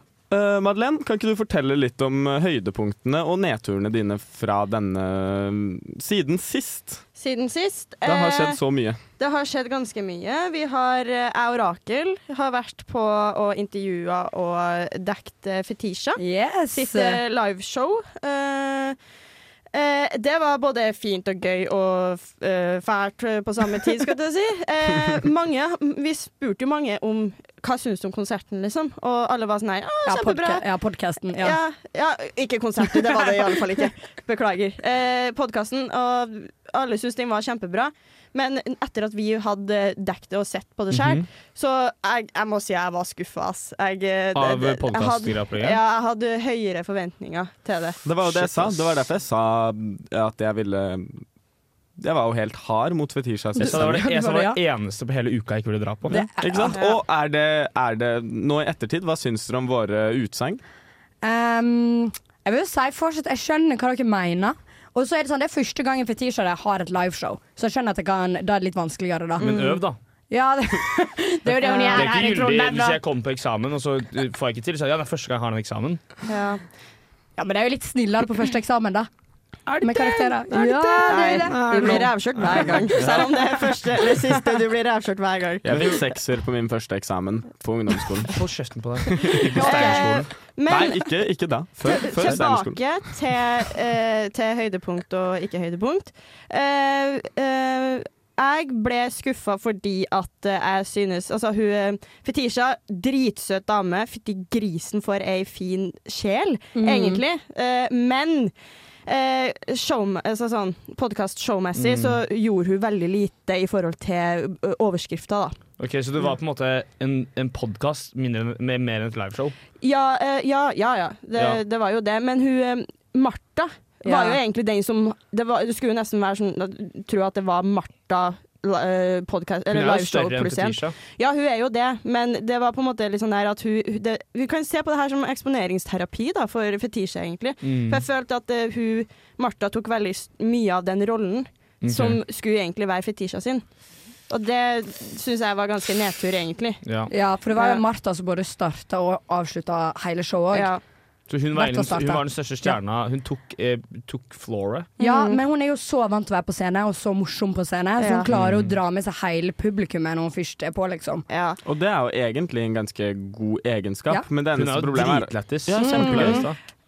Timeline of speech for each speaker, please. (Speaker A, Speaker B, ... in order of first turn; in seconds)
Speaker A: 0.3-7.0, 8.1-9.0, 48.0-51.2, 52.0-54.1, 56.1-60.6, 85.6-88.4, 89.0-92.8, 161.6-166.5
Speaker B: 7.2-8.6, 9.2-16.2, 16.7-19.0, 19.7-30.6, 31.4-48.0, 69.4-69.8, 71.5-72.2, 76.3-76.6, 80.5-86.0, 89.5-91.0, 91.8-108.5, 109.1-115.6, 119.8-143.6, 144.3-146.8, 147.6-147.8, 150.5-150.8, 155.0-155.4, 158.0-158.3, 161.3-161.6, 165.8-166.4
Speaker C: 16.2-17.2, 30.1-31.6, 53.6-54.6, 56.1-56.9, 61.2-69.5, 70.3-73.0, 77.4-79.1, 79.8-82.7, 106.7-107.2, 124.0-124.4, 147.1-150.7, 151.5-152.8, 155.0-161.2, 165.8-166.2
Speaker D: 40.9-41.2, 44.3-45.8, 48.2-48.9, 53.6-56.2, 69.4-70.0, 71.9-76.0, 79.7-83.4, 88.3-90.2, 111.7-112.2, 115.8-119.5, 121.3-121.6, 129.7-130.9, 137.6-138.0, 141.8-142.2, 146.8-147.1, 151.3-154.9, 158.3-158.8, 164.5-166.6